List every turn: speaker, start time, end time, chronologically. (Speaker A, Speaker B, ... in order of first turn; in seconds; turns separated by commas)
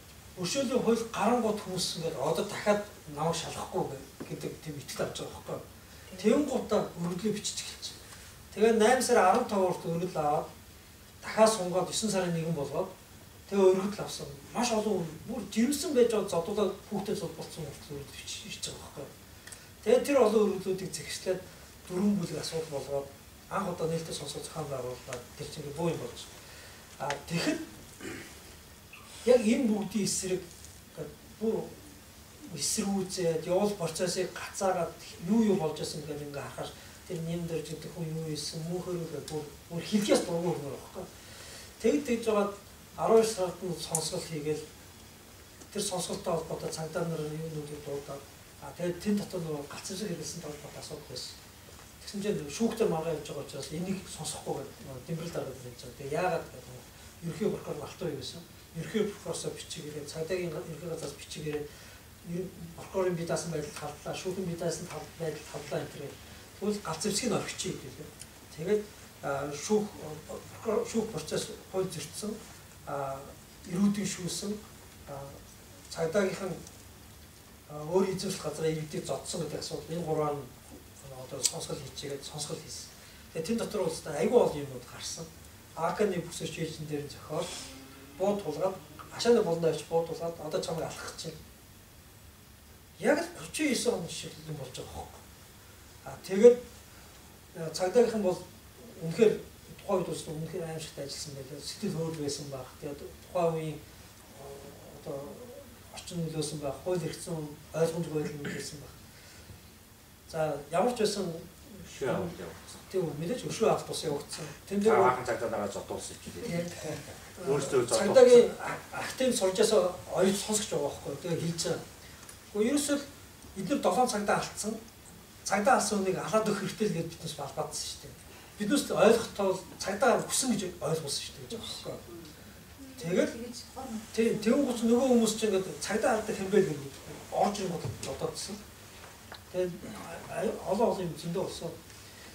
Speaker A: 0.3-5.6, Speaker A: 6.2-8.0, Speaker A: 8.5-10.5, Speaker A: 11.2-12.9, Speaker A: 13.5-19.1, Speaker A: 19.8-26.3, Speaker A: 27.0-27.6, Speaker A: 29.2-31.8, Speaker A: 32.4-41.1, Speaker A: 41.8-44.6, Speaker A: 45.7-51.4, Speaker A: 52.0-61.6, Speaker A: 62.2-75.4, Speaker A: 75.9-76.6, Speaker A: 77.7-87.5, Speaker A: 88.2-91.4, Speaker A: 93.0-95.2, Speaker A: 96.0-96.6, Speaker A: 97.5-103.8, Speaker A: 104.3-108.9, Speaker A: 110.3-112.3, Speaker B: 111.9-112.8, Speaker A: 112.9-115.2, Speaker B: 114.8-118.5, Speaker A: 116.4-121.8, Speaker A: 122.5-124.8, Speaker A: 125.5-132.0, Speaker C: 132.1-134.8, Speaker A: 133.0-133.4, Speaker A: 134.1-138.6, Speaker A: 139.5-141.8